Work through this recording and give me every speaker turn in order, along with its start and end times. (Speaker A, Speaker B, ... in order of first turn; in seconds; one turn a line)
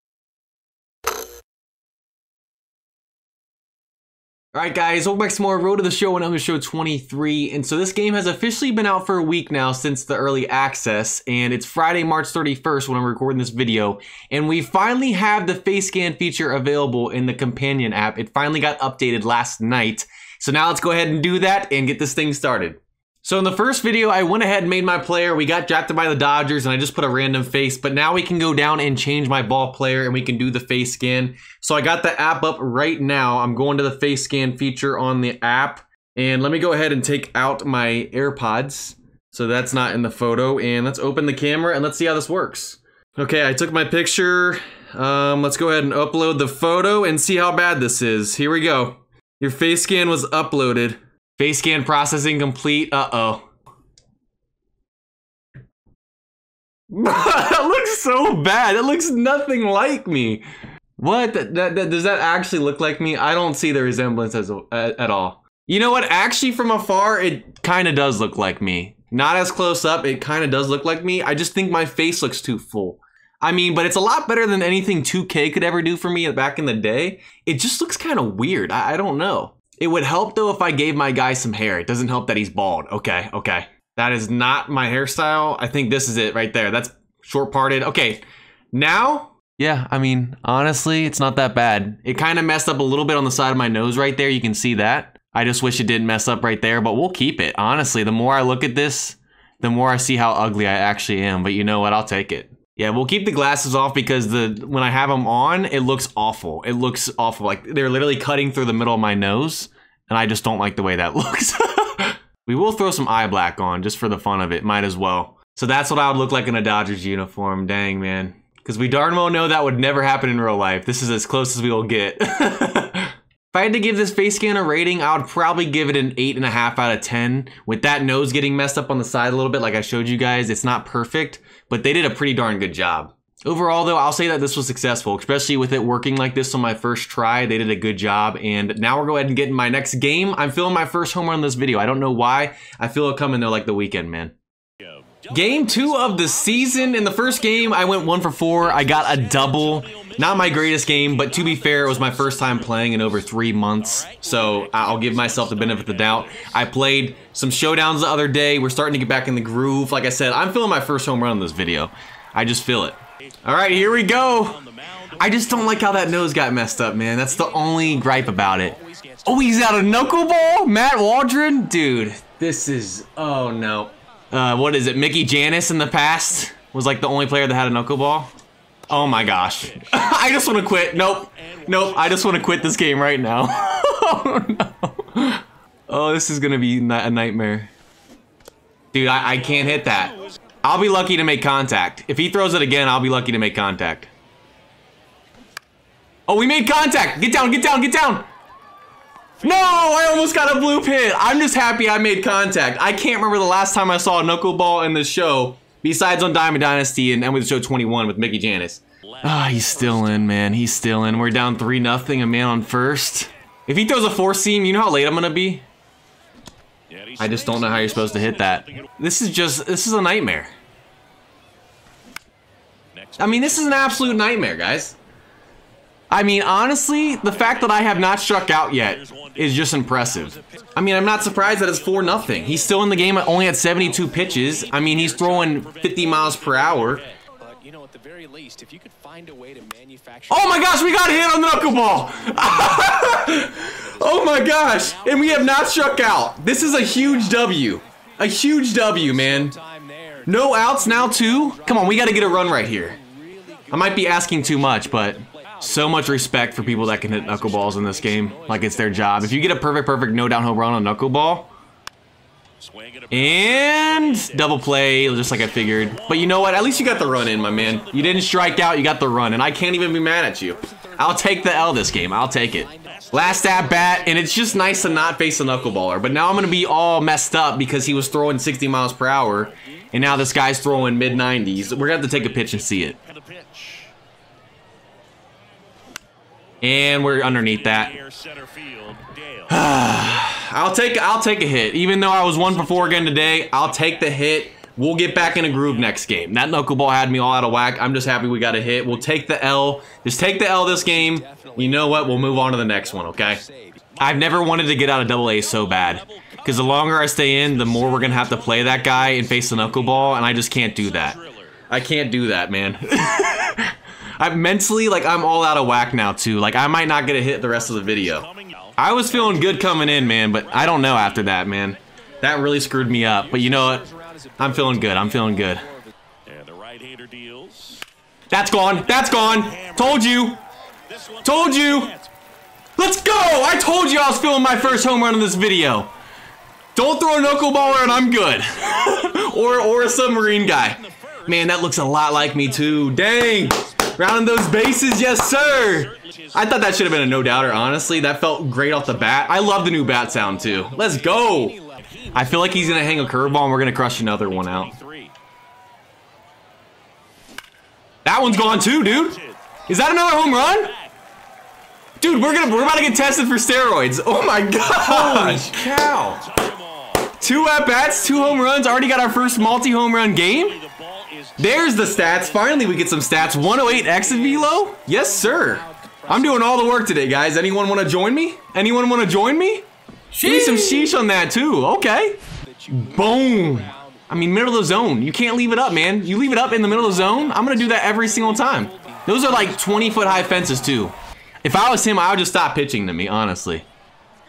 Speaker A: 4.5-53.4
Speaker A: 56.9-60.4
Speaker A: 61.0-144.3
Speaker A: 145.3-164.6
Speaker A: 165.2-178.3
Speaker B: 167.5-170.0
Speaker A: 178.9-187.7
Speaker A: 188.9-194.1
Speaker A: 196.3-198.2
Speaker A: 199.4-215.6
Speaker B: 217.0-217.5
Speaker A: 217.2-220.5
Speaker A: 223.2-225.0
Speaker A: 226.1-237.1
Speaker B: 234.8-235.5
Speaker B: 237.4-240.7
Speaker A: 240.3-249.5
Speaker B: 249.2-251.1
Speaker A: 250.2-253.0
Speaker B: 253.2-253.7
Speaker A: 253.7-261.5
Speaker B: 256.4-259.1
Speaker B: 262.8-263.1
Speaker A: 263.1-283.0
Speaker B: 266.7-267.1
Speaker B: 272.7-273.8
Speaker B: 283.1-283.9
Speaker A: 286.6-288.0
Speaker B: 288.0-289.2
Speaker A: 289.5-303.4
Speaker B: 301.1-302.3
Speaker B: 303.4-304.0
Speaker A: 304.0-311.2
Speaker B: 307.8-308.1
Speaker A: 311.7-323.9
Speaker B: 323.3-325.6
Speaker A: 324.4-325.6
Speaker B: 326.3-327.8
Speaker A: 328.3-330.4
Speaker B: 330.9-332.1
Speaker A: 331.2-331.9
Speaker A: 332.8-335.9
Speaker A: 336.8-351.6
Speaker B: 350.2-353.1
Speaker A: 352.1-354.7
Speaker B: 354.7-355.1
Speaker A: 358.0-360.7
Speaker A: 362.0-366.3
Speaker B: 364.9-365.3
Speaker B: 366.2-367.1
Speaker A: 367.2-370.6
Speaker B: 370.7-372.2
Speaker A: 371.4-382.2
Speaker B: 372.9-376.5
Speaker B: 382.5-384.0
Speaker A: 382.7-393.6
Speaker B: 386.6-390.1